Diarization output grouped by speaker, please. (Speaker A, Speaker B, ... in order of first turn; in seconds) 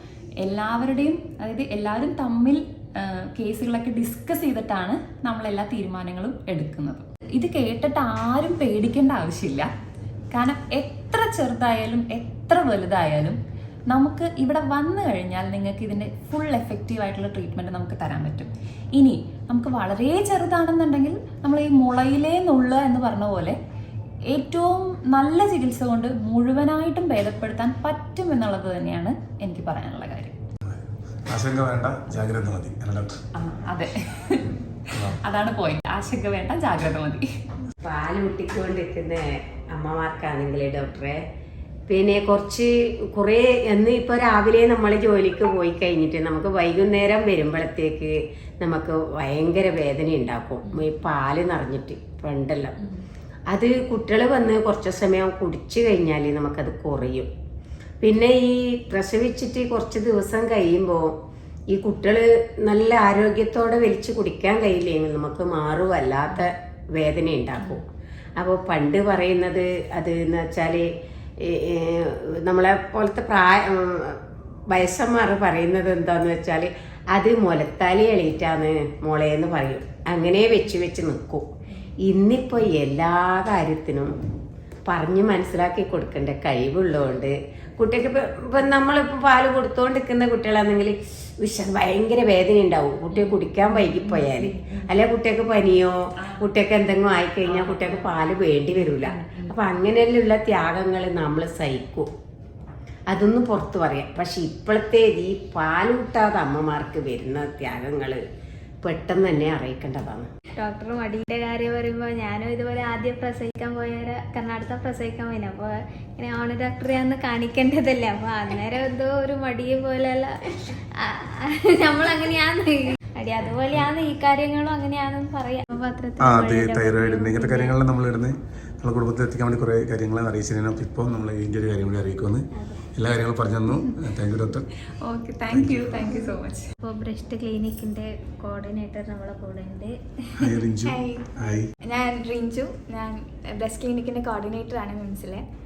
Speaker A: 0.4-9.7, 10.3-13.4, 13.9-23.6, 24.3-30.4, 33.4-34.6, 35.1-37.2, 93.1-94.8, 96.2-96.5, 97.5-98.1, 99.1-99.5, 135.1-136.7
Speaker B: 30.7-33.1, 126.2-132.4, 132.9-134.7, 135.5-136.0, 140.4-141.7
Speaker C: 37.8-41.2, 41.9-52.7, 53.5-57.3, 58.0-61.1, 61.7-67.8, 68.4-70.9, 71.4-81.5, 82.0-84.1, 84.9-102.1, 103.1-108.2, 108.8-110.3
Speaker D: 110.6-127.7, 136.8-139.9
Speaker E: 140.8-145.4